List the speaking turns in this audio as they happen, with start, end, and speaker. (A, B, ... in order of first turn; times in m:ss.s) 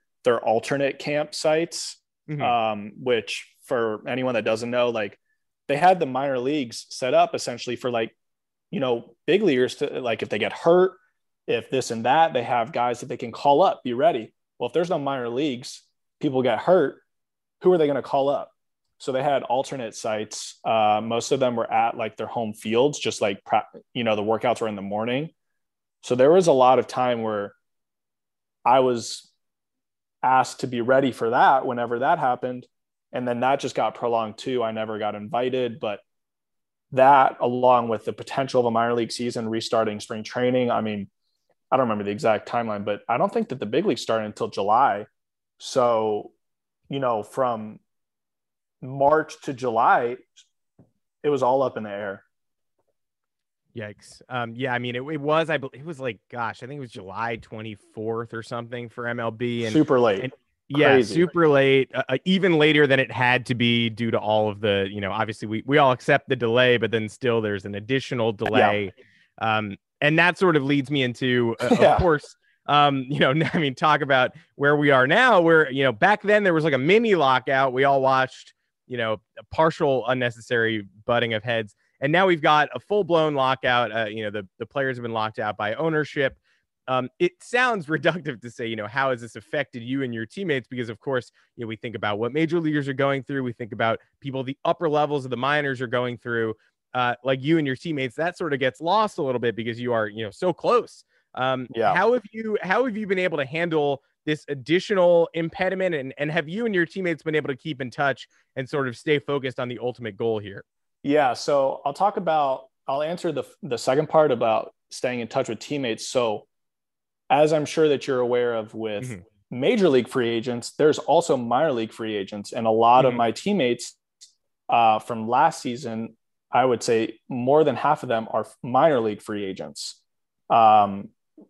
0:00.2-0:08.1 A
0:02.3-0:02.5 B
0:08.7-0:17.0 A
0:17.6-0:25.3 A
0:26.0-0:27.5 A
0:28.6-0:29.3 A
0:30.2-0:36.0 A
0:36.9-0:41.1 A
0:41.7-0:45.1 A
0:45.6-0:46.3 A
0:46.9-0:47.8 A
0:48.8-0:50.3 A
0:51.2-0:52.2 A
0:53.7-1:50.6 B
0:59.6-1:01.3 A
1:08.5-1:08.8 A
1:11.6-1:12.1 A
1:41.7-1:42.0 A
1:51.0-1:56.5 A
1:57.3-2:04.0 A
2:03.0-2:03.2 B
2:04.7-2:10.0 A
2:10.5-2:11.1 A